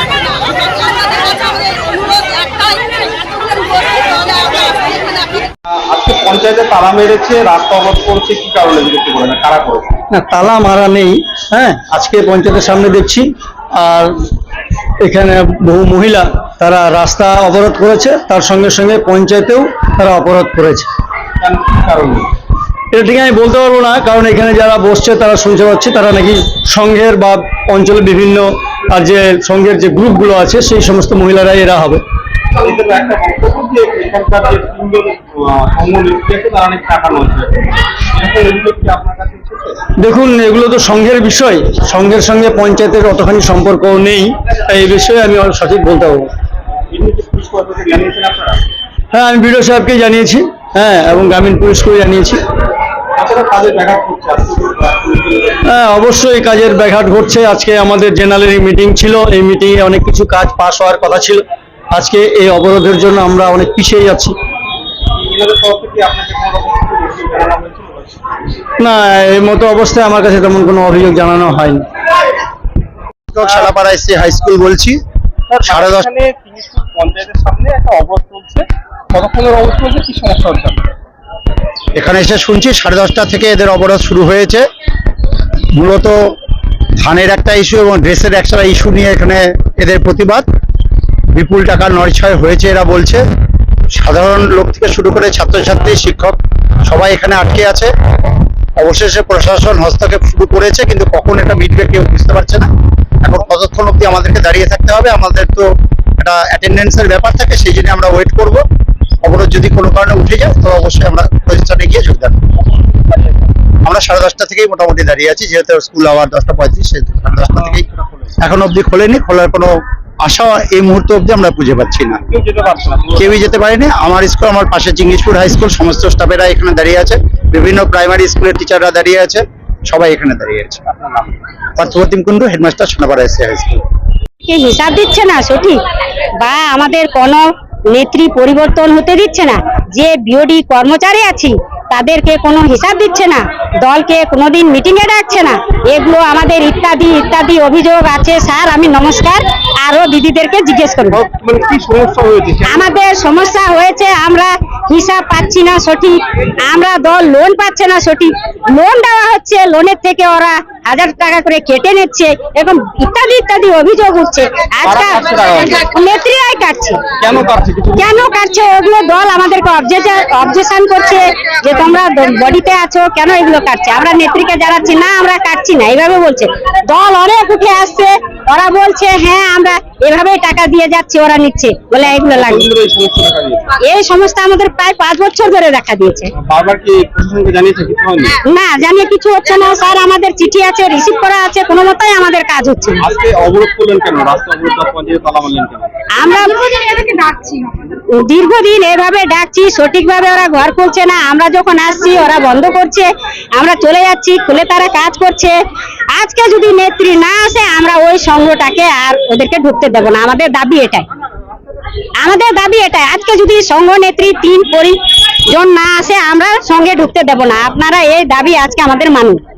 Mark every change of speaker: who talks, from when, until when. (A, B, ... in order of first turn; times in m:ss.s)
0:05.7-0:09.9 A
0:10.1-0:14.1 B
0:15.0-0:20.9 B
0:21.4-0:22.3 A
0:22.9-0:32.0 B
0:32.5-0:37.5 A
0:38.1-0:39.8 A
0:40.0-0:46.3 B
0:46.9-0:48.6 A
0:49.1-0:52.4 B
0:53.2-0:55.6 A
0:55.6-1:01.4 B
1:01.9-1:04.3 B
1:05.2-1:08.4 A
1:08.8-1:11.8 B
1:13.3-1:15.0 C
1:13.4-1:13.7 A
1:15.5-1:20.9 A
1:15.6-1:16.1 C
1:21.9-1:24.6 C
1:25.7-1:26.3 C
1:27.0-1:30.5 C
1:31.3-1:33.2 C
1:33.9-1:37.9 C
1:38.8-1:42.7 C
1:43.2-1:48.6 C
1:49.2-1:52.4 C
1:52.6-1:53.5 A
1:53.8-1:57.8 C
1:57.4-1:58.3 A
1:58.4-2:02.2 C
2:02.3-2:03.4 A
2:03.2-2:10.8 C
2:10.8-2:11.4 A
2:11.8-2:13.8 C
2:14.4-2:15.8 D
2:16.4-2:31.2 D
2:31.1-2:32.9 A
2:32.6-2:45.3 D
2:44.8-2:45.8 A
2:45.8-2:47.0 D
2:47.2-2:48.2 A
2:48.0-3:02.7 D
3:02.0-3:03.7 A
3:03.8-3:06.3 D
3:06.4-3:08.4 A
3:08.4-3:13.0 D
3:13.0-3:15.9 A
3:16.2-3:17.2 D
3:18.1-3:25.6 D
3:26.1-3:31.0 D
3:32.2-3:39.4 D